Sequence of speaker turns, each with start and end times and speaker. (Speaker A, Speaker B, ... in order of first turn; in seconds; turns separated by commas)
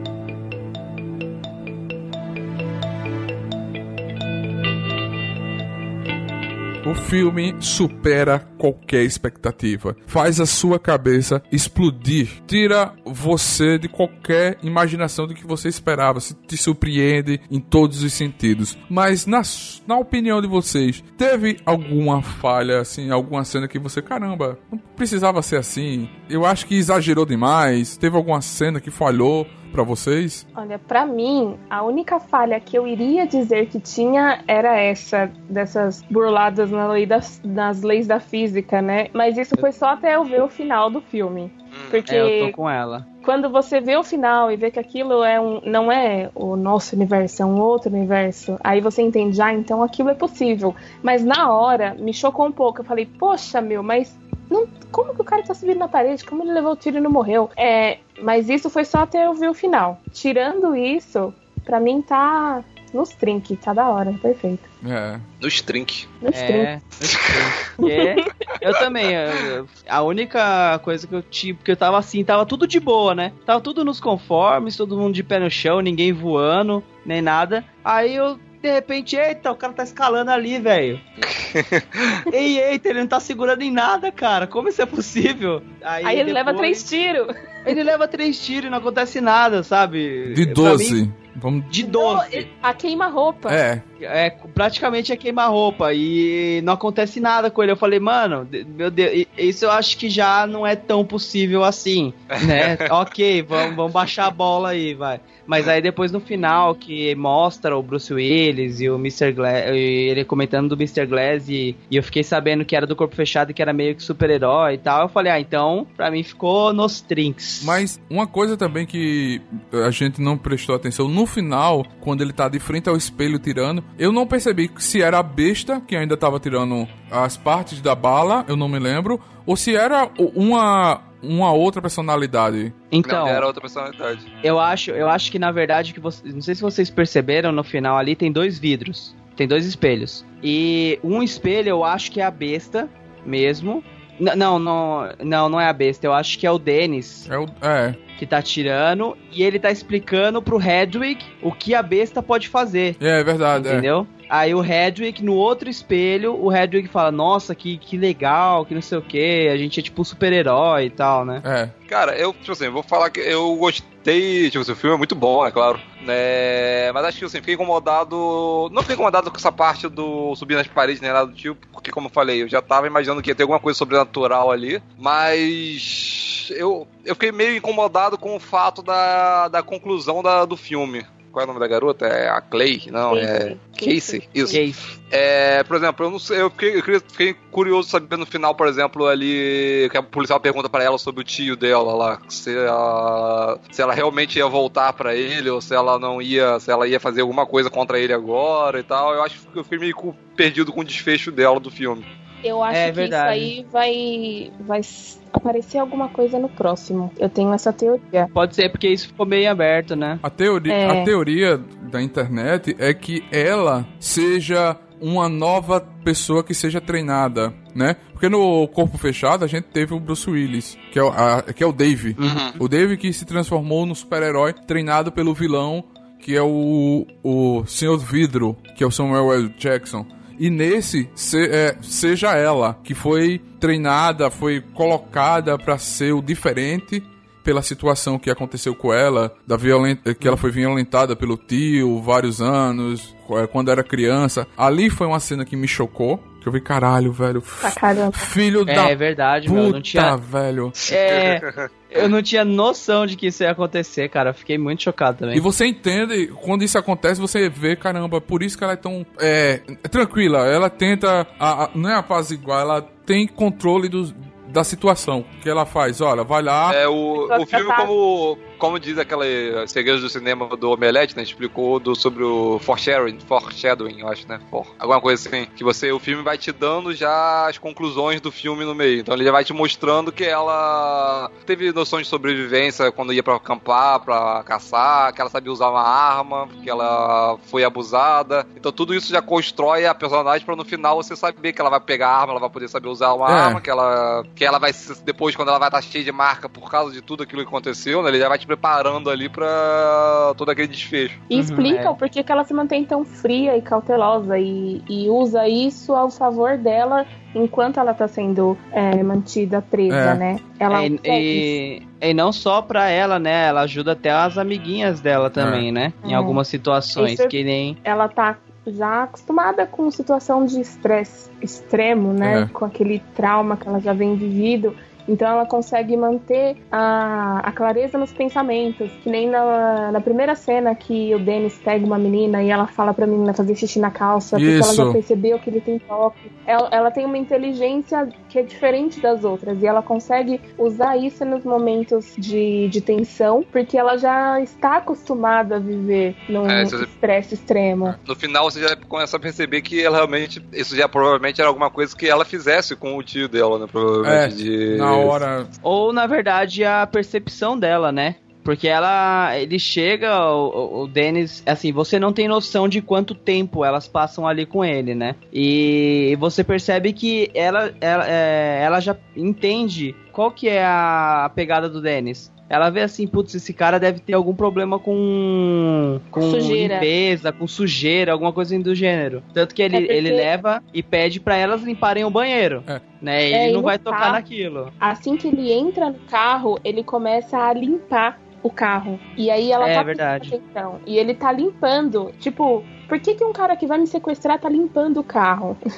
Speaker A: 6.8-30.4, Speaker B: 30.6-42.6, Speaker C: 41.7-42.0, Speaker D: 42.1-43.1, Speaker B: 43.2-64.7, Speaker A: 64.8-65.2, Speaker C: 65.4-66.1, Speaker B: 66.2-66.7, Speaker D: 66.3-81.0, Speaker B: 67.8-68.1, Speaker C: 81.3-82.2, Speaker D: 82.3-86.9, Speaker B: 86.0-87.8, Speaker D: 87.7-91.0, Speaker A: 90.3-91.7, Speaker D: 91.7-92.5, Speaker B: 91.8-93.6, Speaker A: 93.5-93.8, Speaker D: 94.0-117.8, Speaker C: 102.4-102.9, Speaker A: 117.6-132.8, Speaker D: 132.9-133.4, Speaker C: 133.0-134.3, Speaker D: 134.4-147.3, Speaker A: 147.3-148.0, Speaker D: 148.2-153.0, Speaker A: 153.0-153.9, Speaker D: 153.5-161.4, Speaker A: 161.4-161.7, Speaker C: 161.9-184.6, Speaker B: 183.1-184.6, Speaker D: 184.5-184.8, Speaker C: 185.1-202.1, Speaker B: 202.4-208.3, Speaker D: 202.7-203.5, Speaker D: 208.3-210.2, Speaker A: 210.2-250.8, Speaker B: 210.7-211.1, Speaker D: 222.2-222.6, Speaker C: 222.2-222.6, Speaker B: 247.6-248.3, Speaker D: 248.7-250.2, Speaker C: 250.8-252.1, Speaker D: 250.9-255.4, Speaker A: 255.3-266.8, Speaker C: 266.7-301.2, Speaker B: 267.1-267.9, Speaker A: 293.3-293.6, Speaker B: 301.3-311.6, Speaker D: 301.3-302.0, Speaker A: 309.9-310.2, Speaker D: 310.7-317.8, Speaker A: 315.4-315.7, Speaker B: 316.1-316.4, Speaker B: 317.0-347.9, Speaker A: 322.2-322.5, Speaker A: 334.4-335.0, Speaker C: 346.5-346.9, Speaker C: 348.1-355.1, Speaker A: 354.0-355.5, Speaker D: 355.6-384.7, Speaker B: 376.2-376.9, Speaker B: 379.7-380.3, Speaker B: 383.3-384.2, Speaker B: 384.8-395.6, Speaker D: 389.6-390.3